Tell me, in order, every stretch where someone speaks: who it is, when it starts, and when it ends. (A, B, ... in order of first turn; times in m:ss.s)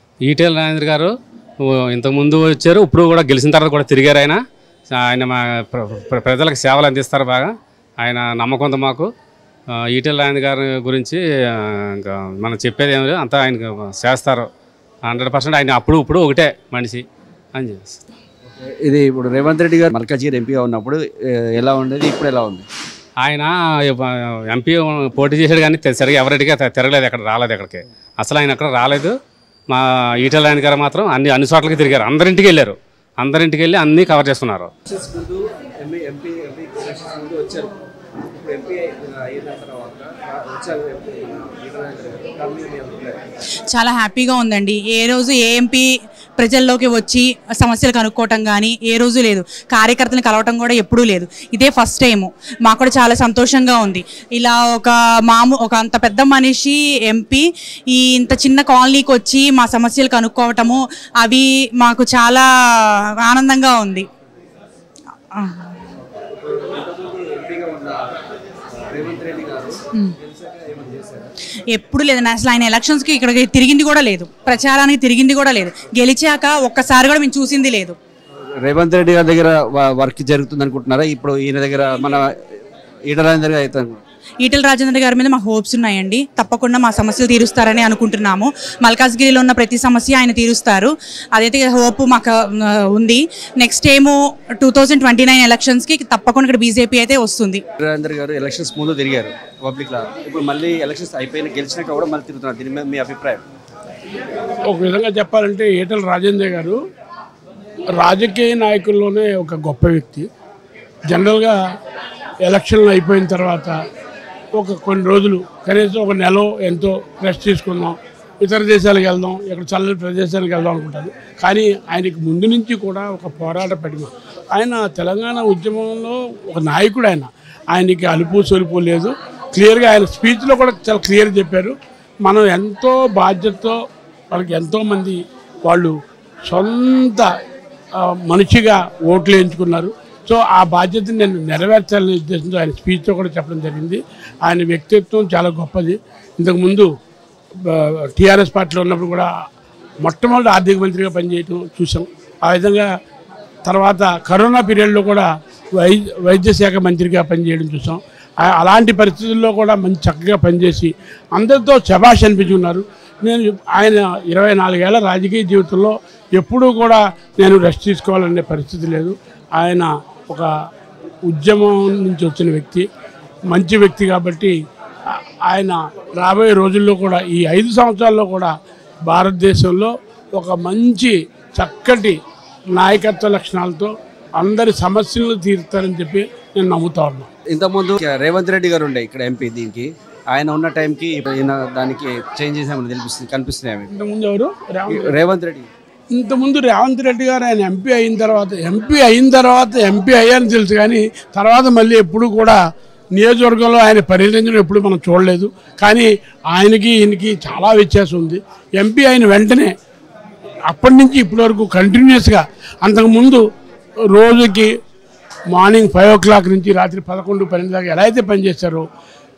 0:00.2-0:01.1 A
0:01.6-0:09.1 A
0:09.9-0:14.5 A
0:15.0-0:18.0 A
0:18.6-0:22.7 B
0:23.2-0:29.2 A
0:29.7-0:34.7 A
0:34.9-0:37.7 B
0:38.2-0:43.2 B
0:43.7-1:04.1 C
1:05.3-1:05.8 C
1:06.3-1:08.1 B
1:08.8-1:11.3 B
1:11.7-1:18.0 C
1:18.4-1:22.3 B
1:23.1-1:24.0 B
1:24.4-1:37.6 C
1:37.8-1:43.4 B
1:44.6-1:46.8 D
1:48.0-1:50.3 D
1:51.1-1:51.6 D
1:52.4-1:53.8 D
1:54.5-2:13.8 D
2:14.3-2:16.0 D
2:16.5-2:17.3 D
2:18.0-2:26.9 D
2:27.6-2:29.3 D
2:30.0-2:32.9 D
2:33.6-2:50.5 D
2:51.3-2:52.8 D
2:53.5-2:54.6 D
2:55.1-2:58.5 D
2:59.1-3:02.2 D
3:02.7-3:07.3 D
3:07.5-3:13.9 B
3:13.9-3:15.2 D
3:14.9-3:15.7 B
3:16.1-3:22.6 D
3:23.2-3:29.7 D
3:30.7-3:33.4 D
3:34.1-3:34.7 D
3:35.5-3:38.8 D